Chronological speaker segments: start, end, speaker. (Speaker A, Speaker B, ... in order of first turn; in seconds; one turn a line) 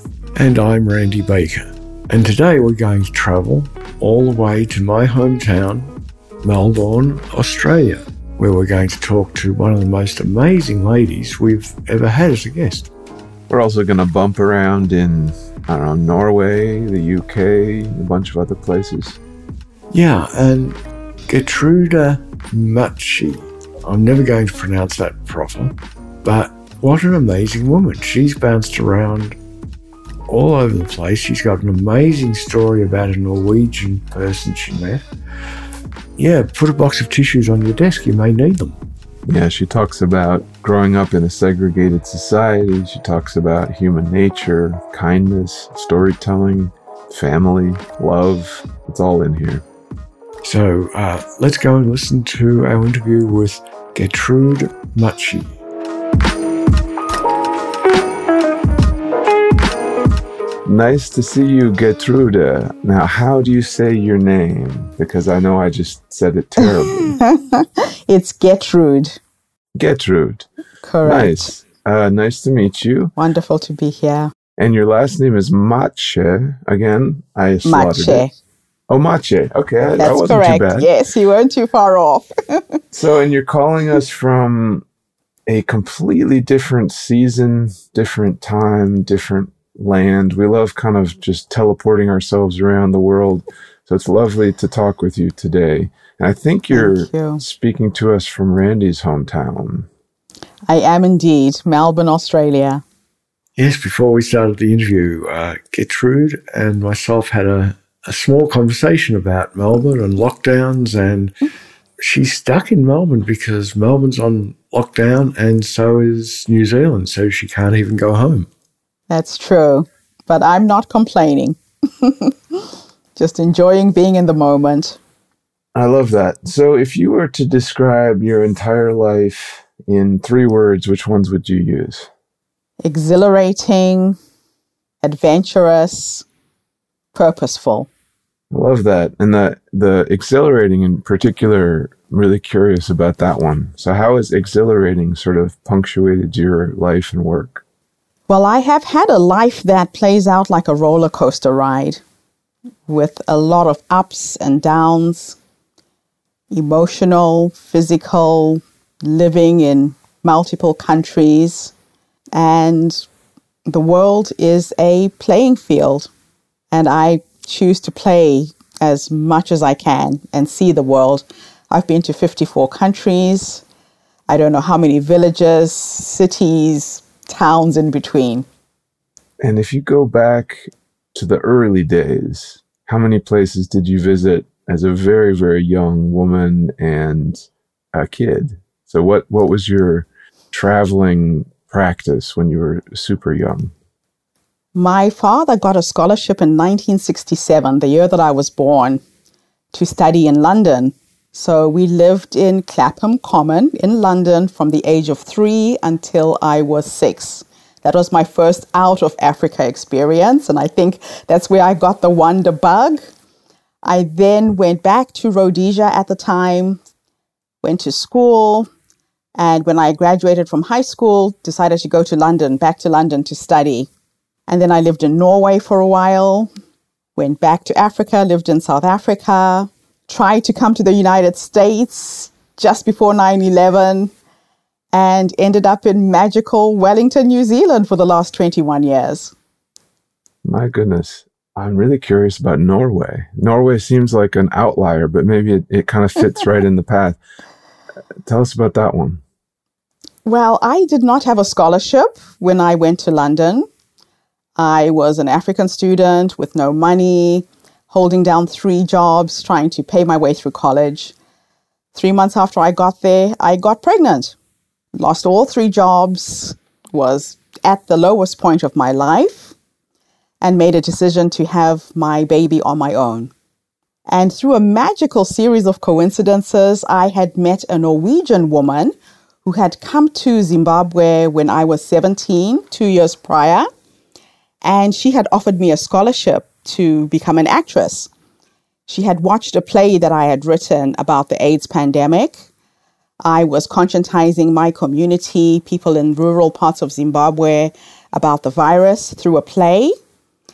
Speaker A: 0.3-12.9
Speaker B: 13.5-19.2
Speaker A: 19.9-29.4
Speaker A: 30.3-35.0
Speaker A: 36.2-38.8
Speaker B: 39.3-49.6
Speaker A: 50.4-55.5
Speaker B: 60.6-67.2
Speaker C: 66.6-69.2
Speaker B: 69.8-70.5
Speaker C: 70.8-71.5
Speaker B: 71.0-73.1
Speaker C: 73.2-74.3
Speaker B: 74.6-78.2
Speaker C: 77.6-78.3
Speaker B: 78.9-80.9
Speaker C: 79.9-82.6
Speaker B: 82.9-84.8
Speaker B: 85.5-99.9
Speaker C: 96.7-97.4
Speaker C: 100.7-102.8
Speaker A: 103.6-111.3
Speaker A: 112.0-118.5
Speaker C: 119.1-122.3
Speaker C: 123.2-125.0
Speaker B: 125.7-132.1
Speaker C: 132.8-134.2
Speaker C: 135.0-136.2
Speaker C: 137.1-137.9
Speaker B: 138.5-147.6
Speaker C: 148.3-152.0
Speaker C: 152.9-155.4
Speaker C: 156.5-161.7
Speaker C: 162.3-163.1
Speaker C: 163.7-166.1
Speaker C: 166.7-173.6
Speaker C: 174.3-178.4
Speaker B: 179.4-193.7
Speaker C: 194.7-199.0
Speaker C: 199.7-213.1
Speaker C: 213.8-216.8
Speaker C: 217.6-218.7
Speaker C: 219.3-223.9
Speaker C: 224.5-226.5
Speaker C: 227.2-234.1
Speaker C: 234.9-239.3
Speaker B: 240.4-247.2
Speaker B: 248.2-249.2
Speaker C: 250.2-253.7
Speaker C: 254.6-261.1
Speaker C: 261.9-264.3
Speaker C: 264.9-269.5
Speaker C: 270.4-273.3
Speaker C: 274.1-283.7
Speaker C: 284.6-288.1
Speaker C: 288.9-292.4
Speaker C: 293.2-299.9